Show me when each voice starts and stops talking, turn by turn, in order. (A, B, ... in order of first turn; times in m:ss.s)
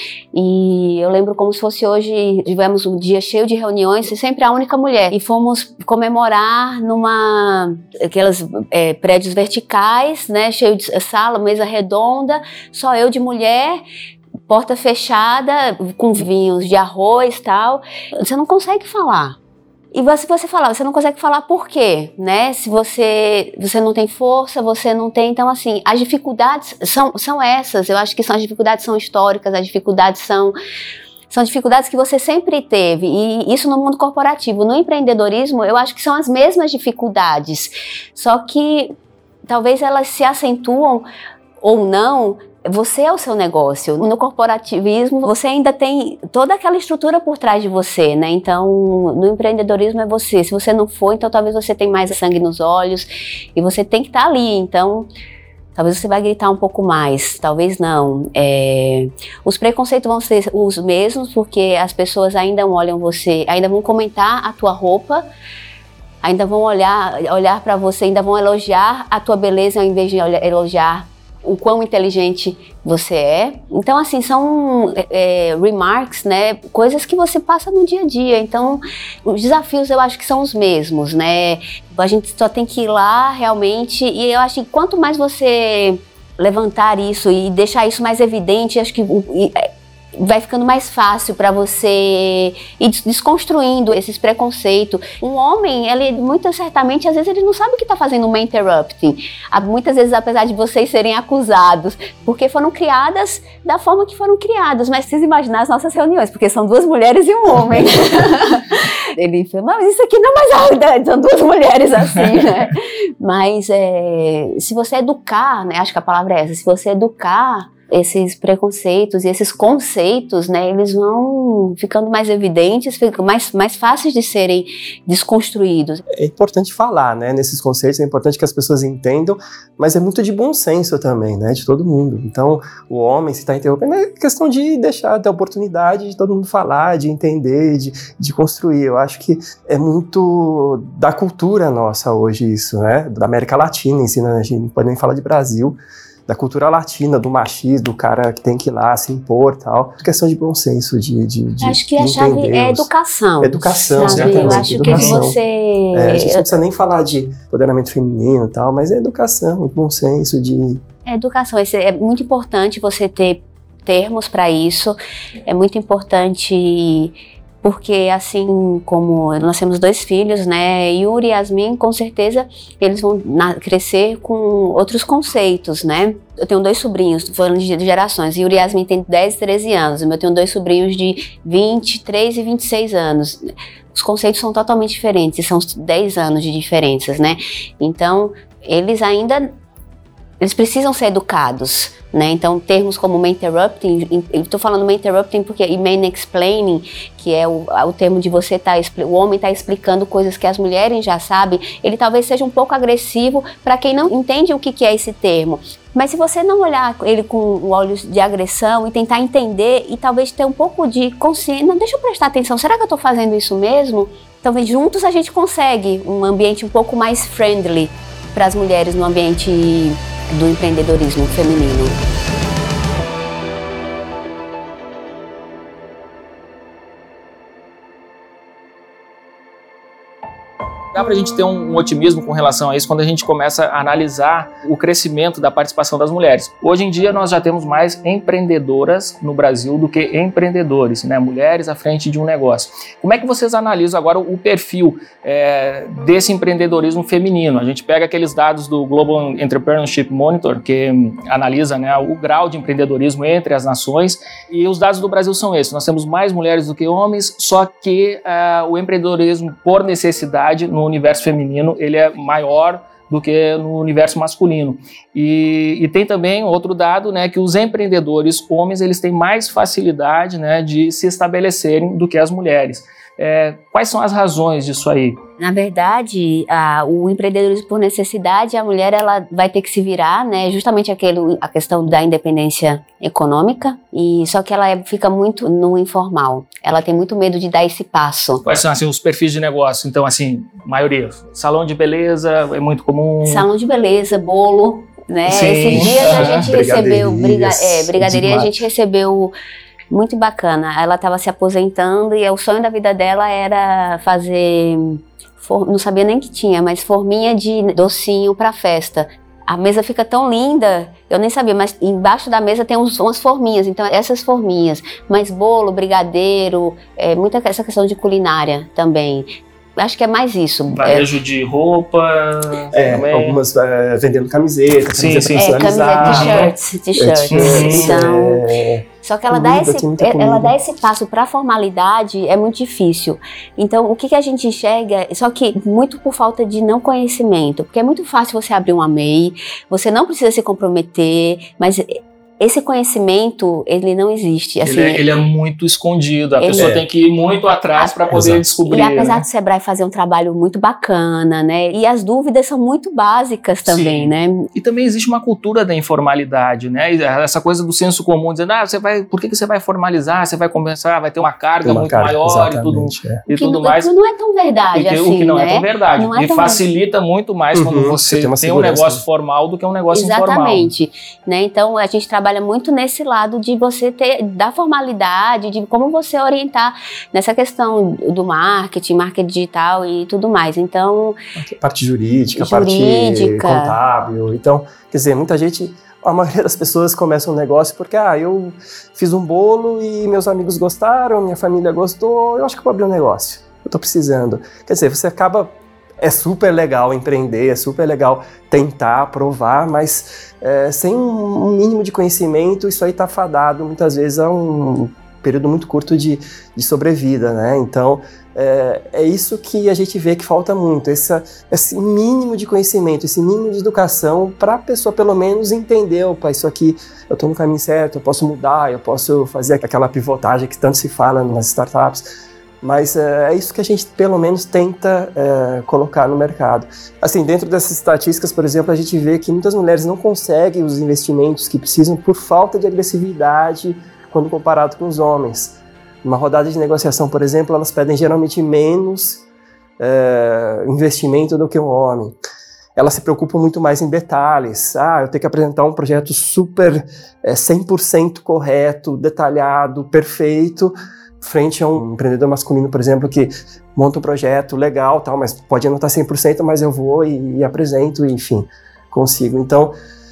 0:00.3-0:13.8 A
0:14.5-0:19.4 A
0:19.9-0:30.5 A
0:31.3-0:38.9 A
0:39.4-0:41.1 A
0:41.6-0:55.1 A
0:55.7-1:05.2 A
1:06.2-2:06.0 A
2:06.1-2:32.9 B
2:31.6-2:36.5 A
2:33.4-2:35.4 B
2:33.8-2:35.2 C
2:35.9-2:40.8 B
2:41.0-3:09.5 A
3:10.4-3:42.0 A
3:50.9-4:35.2 C
4:35.4-4:48.4 A
4:48.4-4:53.5 C
4:53.2-4:59.3 A
4:55.3-4:56.4 C
4:55.7-4:58.6 B
4:59.9-5:21.1 A
5:20.7-5:23.4 C
5:22.7-5:30.6 B
5:24.9-5:26.5 C
5:25.4-5:28.4 A
5:27.3-5:28.0 C
5:29.0-5:45.0 A
5:44.6-5:49.2 C
5:46.4-5:46.7 A
5:46.5-5:46.8 B
5:47.8-5:54.5 A
5:48.1-5:48.4 B
5:53.6-6:03.9 C
6:01.6-6:03.2 B
6:03.3-6:06.6 A
6:04.7-6:10.7 C
6:07.5-6:09.0 B
6:09.9-6:21.2 A
6:21.4-7:02.1 B
6:22.4-6:23.8 A
7:02.6-7:19.2 B
7:19.8-7:22.2 B
7:22.8-7:39.8 B